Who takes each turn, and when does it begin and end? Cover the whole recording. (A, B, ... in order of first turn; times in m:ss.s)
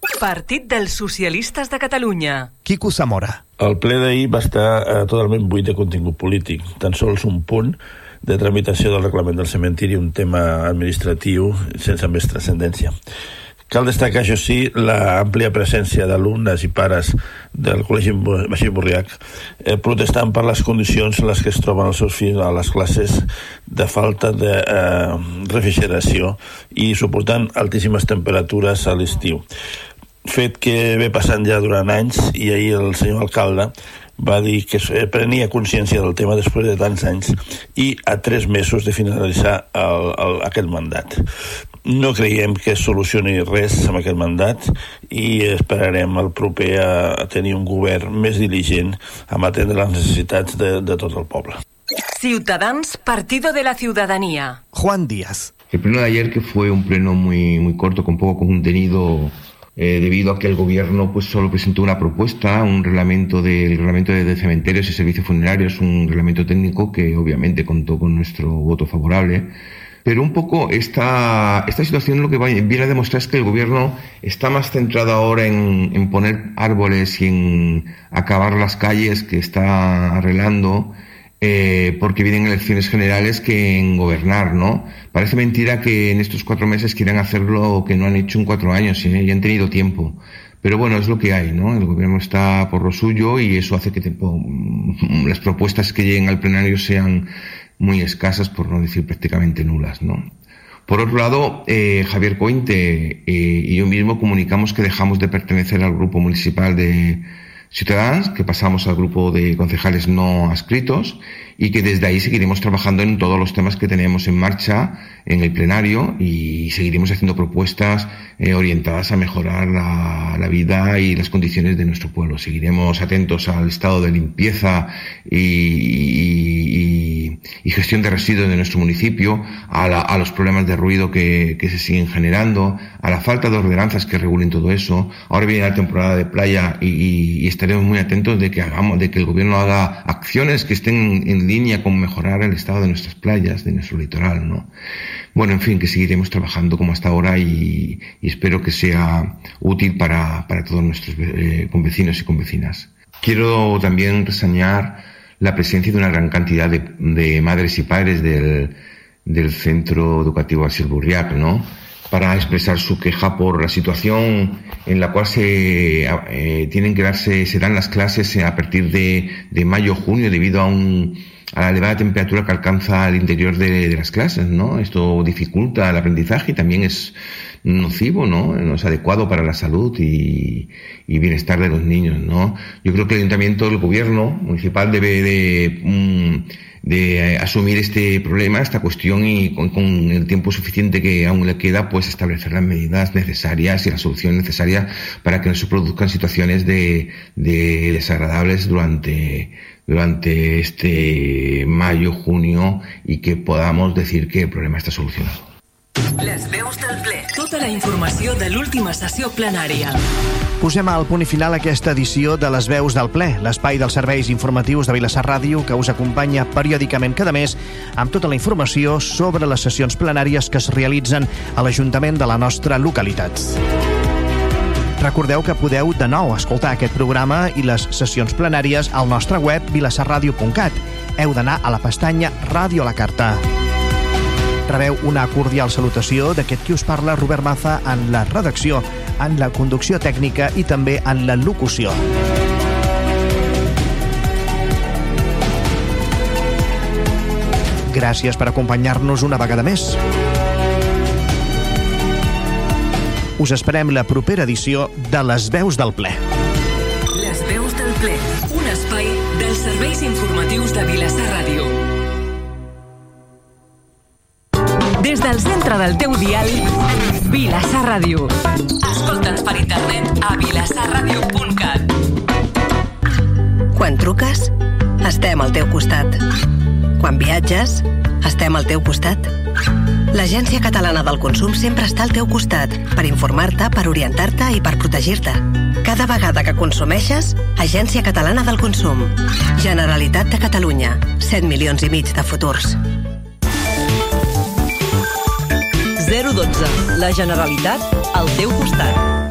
0:00.1-0:02.5 A
0:02.6-0:03.4 B
0:03.6-0:12.9 C
0:13.7-0:29.4 C
0:30.2-0:41.2 C
0:41.8-0:51.6 C
0:52.1-0:54.6 A
0:54.7-0:55.5 B
0:55.7-1:40.3 D
1:40.9-2:24.7 D
2:25.3-3:25.4 D
3:26.2-3:30.0 A
3:30.6-3:43.6 B
3:45.0-3:53.4 B
3:54.7-4:02.0 B
4:07.9-4:10.0 B
4:13.4-4:16.2 B
4:17.1-4:21.8 A
4:25.0-4:26.7 A
4:27.2-4:31.9 A
4:33.7-4:36.2 E
4:37.0-4:39.3 E
4:40.1-4:52.8 E
4:56.0-4:59.0 F